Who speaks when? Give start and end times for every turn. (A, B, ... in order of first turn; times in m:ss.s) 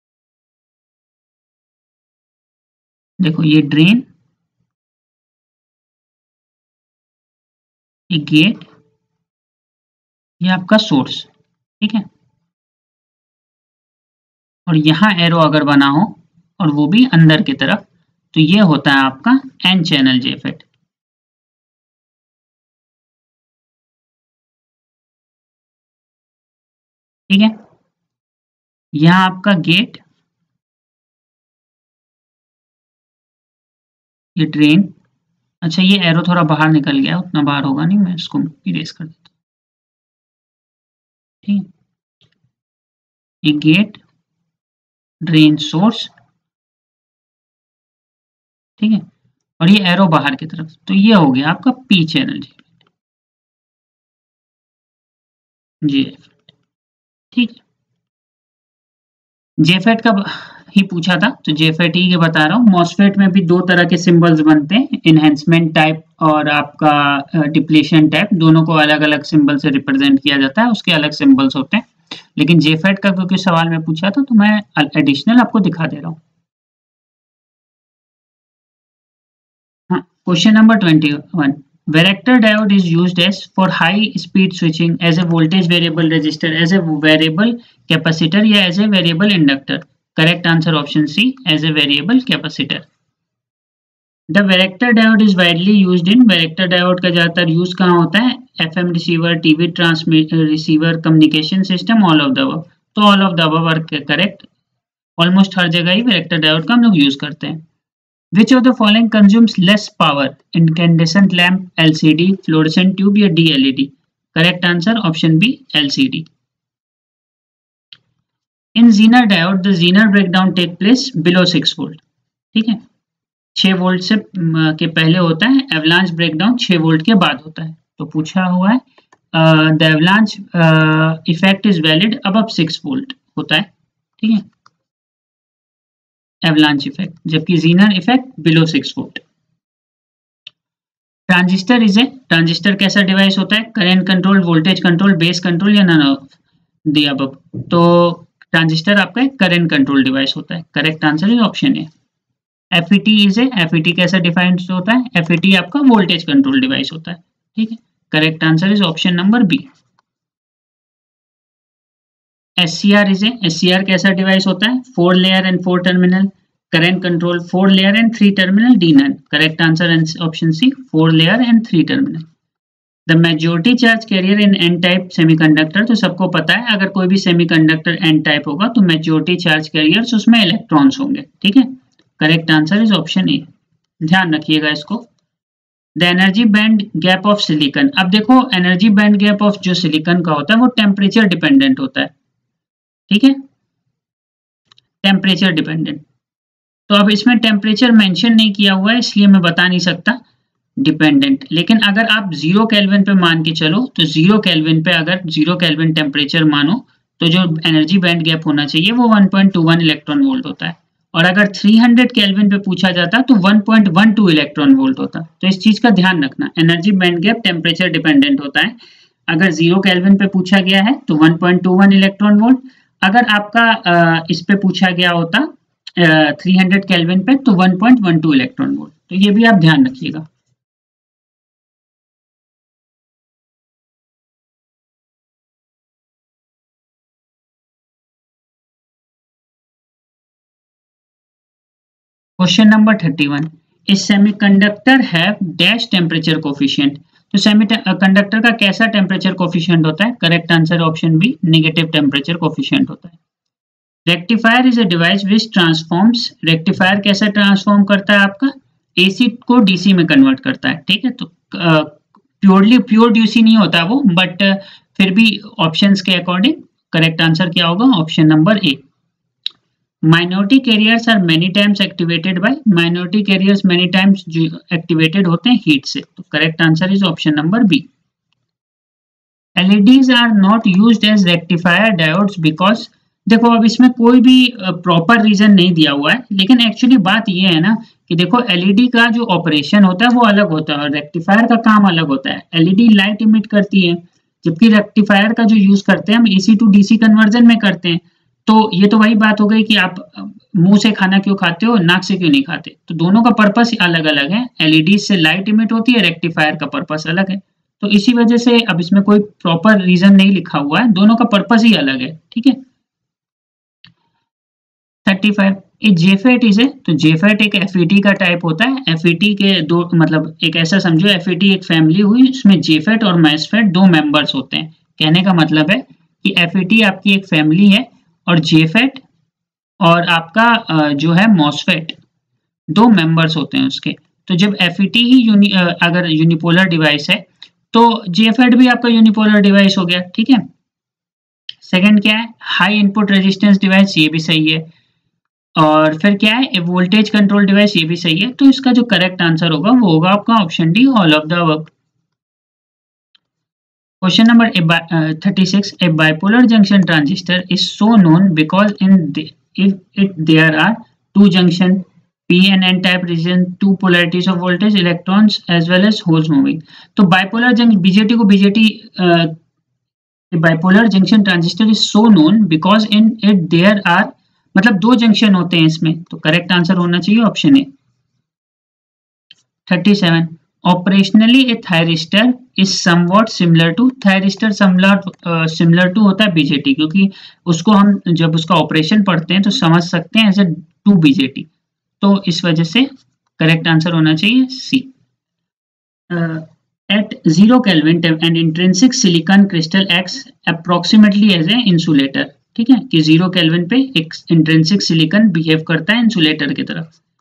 0:03.2-0:04.1 A
0:08.1-0:08.7 A
0:10.4-0:11.3 A
0:11.8-0:12.1 A
0:14.7-0:20.7 A
0:27.3-0:27.6 A
0:28.9-0:30.0 A
0:34.4-0:34.9 A
0:35.6-0:39.3 A
0:43.4-0:44.0 A
0:45.2-0:46.1 A
0:48.8-0:49.0 A
0:49.6-0:52.6 A
0:55.8-0:56.3 A
0:57.3-0:57.6 A
0:59.6-1:16.2 A
1:19.9-1:32.9 A
1:34.3-1:44.5 A
1:45.2-1:47.6 A
1:48.3-1:56.3 A
1:58.8-2:02.0 A
2:02.5-2:02.8 A
2:03.6-2:08.8 A
2:09.3-2:13.7 A
2:16.4-2:19.2 A
2:21.3-2:26.3 A
2:26.9-2:31.9 A
2:32.7-2:39.7 A
2:42.6-2:52.2 A
2:53.1-3:03.4 A
3:04.0-3:05.1 A
3:06.0-3:12.1 A
3:13.1-3:13.4 A
3:15.0-3:16.0 A
3:16.9-3:20.2 A
3:20.8-3:38.8 A
3:39.3-3:50.2 A
4:02.4-4:13.2 A
4:14.1-4:28.8 A
4:30.0-4:37.9 A
4:39.6-5:12.6 A
5:15.1-5:29.0 A
5:29.8-5:32.0 A
5:32.7-5:40.4 A
5:41.6-5:44.7 A
5:45.6-5:51.7 A
5:54.0-6:09.3 A
6:10.3-6:17.7 A
6:19.7-6:31.5 A
6:32.0-6:34.9 A
6:36.1-6:46.9 A